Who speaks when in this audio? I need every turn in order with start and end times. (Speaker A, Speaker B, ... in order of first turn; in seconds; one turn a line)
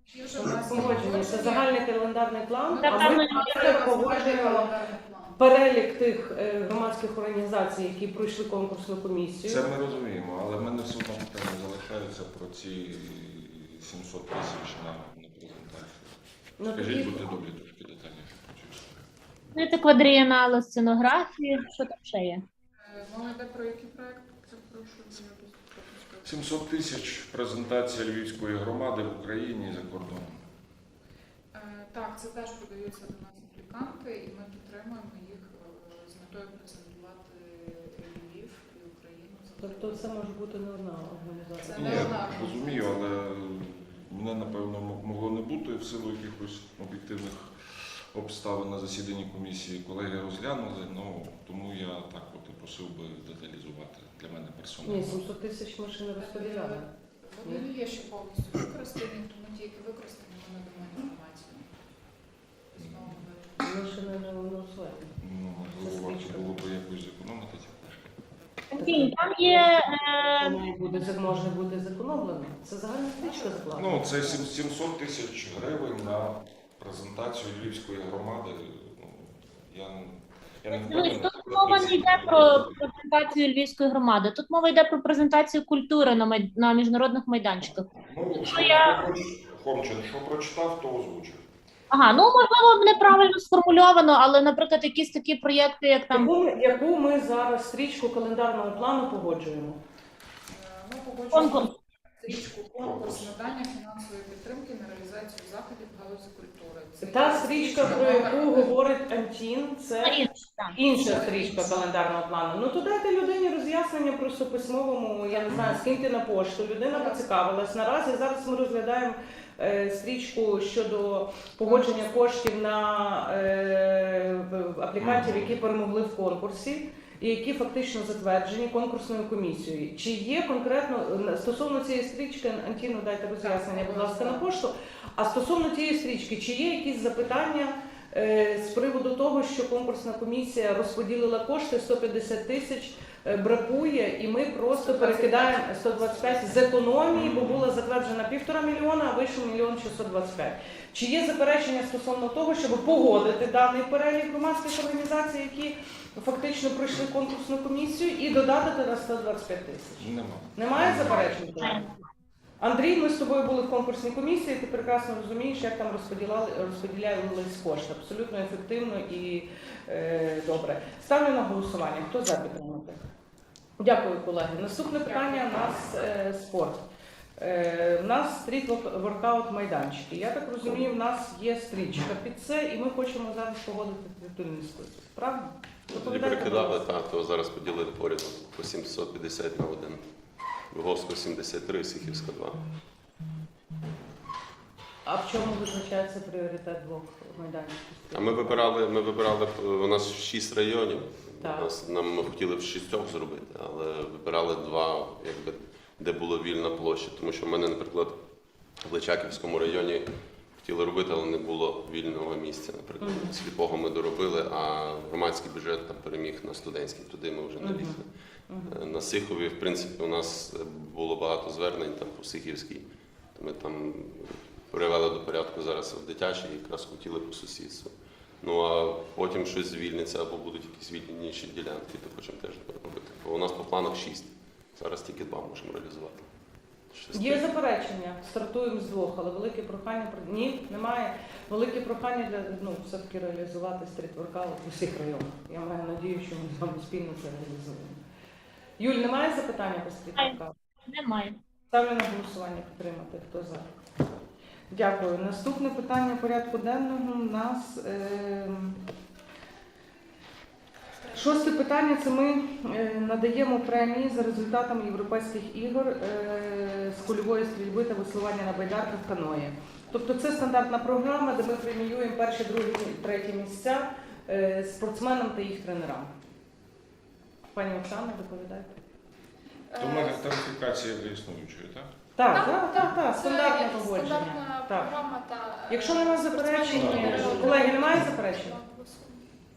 Speaker A: 0.1-1.8
Speaker B: 0.6-4.7
Speaker C: 0.8-1.0
Speaker A: 2.7-5.4
Speaker D: 2.8-3.7
Speaker B: 5.4-9.6
Speaker C: 9.4-16.1
Speaker B: 16.6-17.3
Speaker C: 16.7-19.0
Speaker D: 19.5-22.4
Speaker A: 22.8-26.4
Speaker C: 26.2-30.4
Speaker A: 31.5-40.3
Speaker B: 39.6-42.2
Speaker A: 41.6-43.1
Speaker C: 41.7-55.3
Speaker B: 54.8-56.9
Speaker A: 56.2-61.7
Speaker A: 62.7-63.8
Speaker C: 62.8-63.2
Speaker B: 63.6-65.1
Speaker C: 65.2-68.0
Speaker B: 65.8-66.6
Speaker D: 68.7-70.6
Speaker B: 68.8-69.7
Speaker B: 70.4-74.4
Speaker A: 73.2-73.7
Speaker C: 73.7-82.8
Speaker D: 80.7-89.0
Speaker C: 88.0-91.4
Speaker D: 91.9-96.3
Speaker B: 96.1-99.8
Speaker A: 100.5-108.8
Speaker D: 101.3-101.7
Speaker C: 102.8-103.3
Speaker B: 107.0-161.8
Speaker D: 110.0-111.2
Speaker A: 111.0-111.9
Speaker A: 115.3-115.6
Speaker C: 115.5-115.8
Speaker A: 116.9-117.3
Speaker A: 121.6-122.2
Speaker C: 125.0-125.5
Speaker A: 133.4-134.5
Speaker A: 144.7-146.7
Speaker C: 147.1-147.7
Speaker C: 160.0-161.3
Speaker D: 161.6-161.9
Speaker B: 162.6-173.0
Speaker B: 173.8-176.8
Speaker A: 175.1-175.6
Speaker B: 177.4-186.8
Speaker E: 185.9-190.0
Speaker E: 190.7-192.6
Speaker B: 195.1-198.7
Speaker E: 198.1-208.2
Speaker B: 201.4-201.7
Speaker E: 208.8-210.1
Speaker E: 210.6-218.1
Speaker B: 213.0-213.3
Speaker B: 217.6-218.8
Speaker E: 218.7-236.3
Speaker E: 236.9-237.4
Speaker B: 237.1-248.0
Speaker B: 248.8-250.6
Speaker D: 250.1-251.4
Speaker B: 251.7-253.7
Speaker B: 254.7-258.8
Speaker F: 260.9-261.6
Speaker B: 261.1-276.1
Speaker B: 277.5-278.8
Speaker F: 279.7-280.3
Speaker C: 279.8-281.9
Speaker B: 282.1-284.9
Speaker F: 282.3-289.2
Speaker B: 285.7-288.6
Speaker C: 286.7-288.0